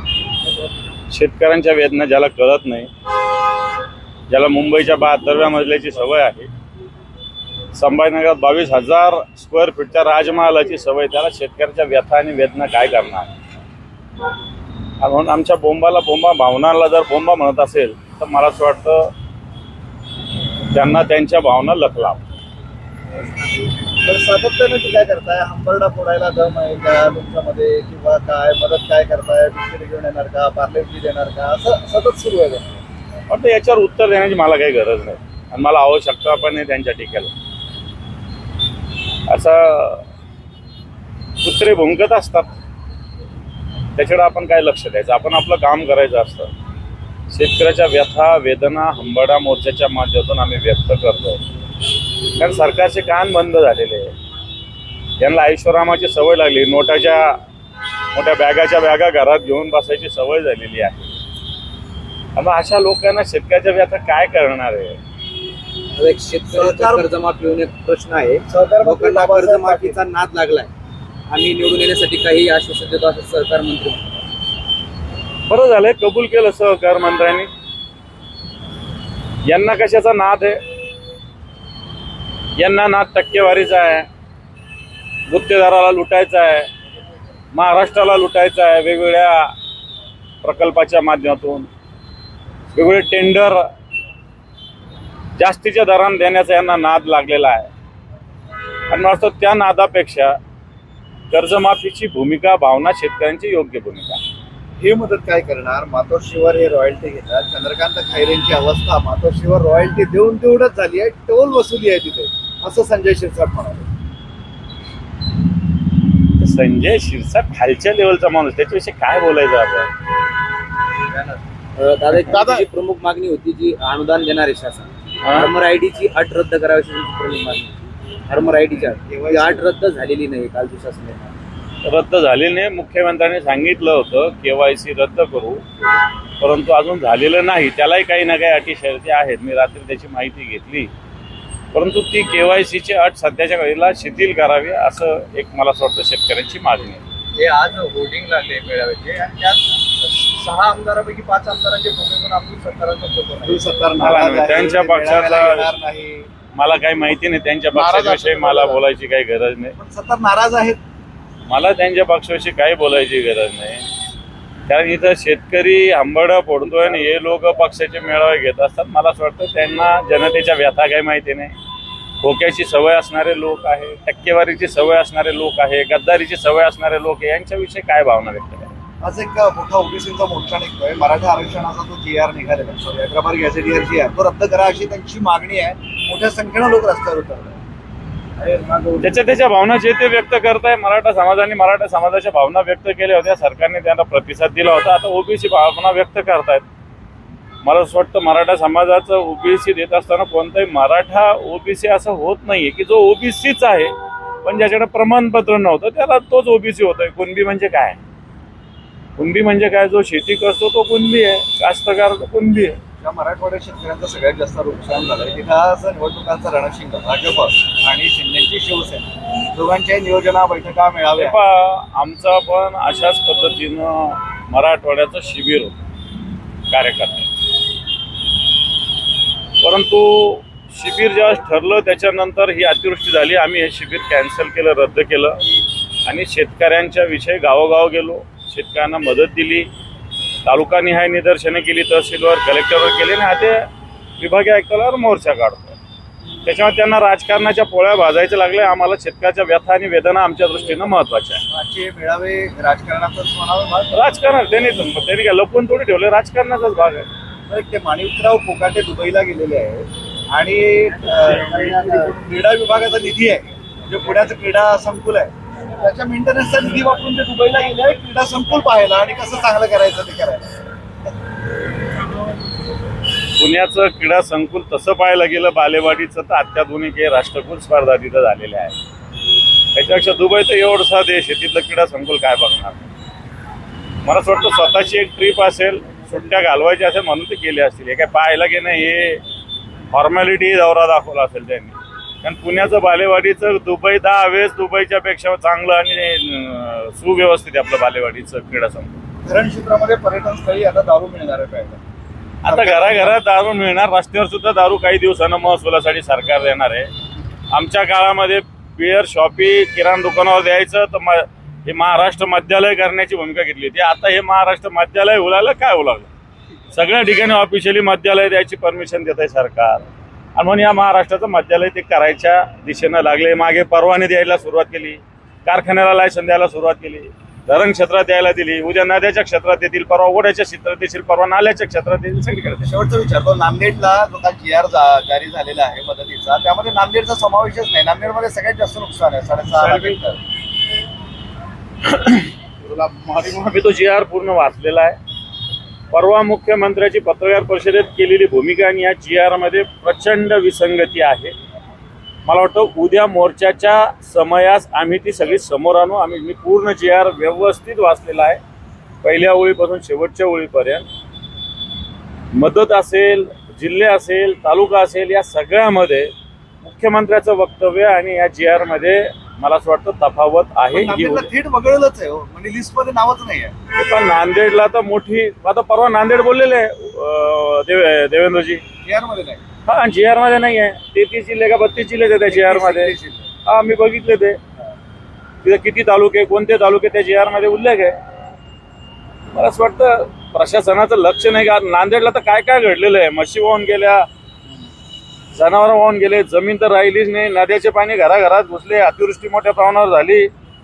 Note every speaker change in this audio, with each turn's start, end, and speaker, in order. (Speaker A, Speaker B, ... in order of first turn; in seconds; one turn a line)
Speaker A: 1.1-2.9
Speaker A: 4.3-6.5
Speaker A: 7.7-13.3
Speaker A: 15.0-19.1
Speaker A: 20.7-22.2
Speaker B: 23.3-32.8
Speaker A: 33.3-37.3
Speaker A: 39.3-40.0
Speaker A: 41.4-42.5
Speaker A: 44.0-46.5
Speaker A: 47.3-51.4
Speaker A: 52.3-54.1
Speaker A: 55.2-57.4
Speaker A: 58.1-61.1
Speaker A: 62.4-65.0
Speaker C: 65.9-70.7
Speaker B: 66.5-67.0
Speaker B: 68.5-70.0
Speaker C: 71.3-74.2
Speaker A: 75.5-77.5
Speaker A: 79.5-80.6
Speaker A: 82.6-84.1
Speaker A: 85.3-86.7
Speaker A: 87.5-89.5
Speaker A: 90.4-91.7
Speaker A: 92.7-93.6
Speaker A: 95.4-97.7
Speaker A: 98.9-100.4
Speaker A: 101.3-104.2
Speaker B: 104.8-113.9
Speaker A: 116.4-119.9
Speaker B: 121.1-121.4
Speaker C: 121.8-131.3
Speaker A: 122.3-122.6
Speaker A: 125.2-125.5
Speaker B: 128.9-129.7
Speaker A: 131.8-135.6
Speaker A: 136.4-140.9
Speaker A: 141.7-147.0
Speaker D: 147.4-149.9
Speaker C: 148.0-149.1
Speaker C: 150.0-153.5
Speaker B: 153.4-156.3
Speaker A: 154.0-155.7
Speaker A: 156.6-159.8
Speaker B: 157.7-158.8
Speaker B: 159.8-160.8
Speaker A: 161.5-163.8
Speaker A: 164.7-171.5
Speaker A: 172.2-178.7
Speaker B: 179.0-187.6
Speaker C: 188.5-188.8
Speaker A: 189.0-196.6
Speaker A: 197.6-203.9
Speaker A: 204.4-208.0
Speaker A: 209.2-212.8
Speaker B: 213.0-221.4
Speaker A: 221.2-225.8
Speaker A: 226.7-227.3
Speaker A: 229.6-235.4
Speaker A: 236.1-239.7
Speaker A: 240.4-243.7
Speaker A: 244.2-245.8
Speaker A: 246.4-251.4
Speaker B: 251.5-253.9
Speaker A: 253.9-257.1
Speaker B: 257.5-270.5
Speaker A: 273.4-278.8
Speaker A: 279.7-282.8
Speaker A: 284.0-289.2
Speaker A: 289.9-299.0
Speaker B: 299.2-301.8
Speaker A: 302.4-306.9
Speaker B: 302.4-303.2
Speaker A: 307.5-316.1
Speaker A: 316.7-319.8
Speaker A: 320.4-332.7
Speaker B: 332.6-340.2
Speaker A: 339.5-340.1
Speaker A: 341.8-345.0
Speaker A: 345.9-351.3
Speaker A: 352.3-358.4
Speaker A: 359.0-360.9
Speaker A: 362.3-366.1
Speaker A: 366.6-371.3
Speaker B: 370.7-373.5
Speaker A: 373.8-378.6
Speaker B: 378.8-379.4
Speaker A: 379.7-382.9
Speaker B: 382.3-383.3
Speaker A: 383.5-384.4
Speaker A: 385.4-388.0
Speaker A: 389.3-394.1
Speaker A: 395.3-400.3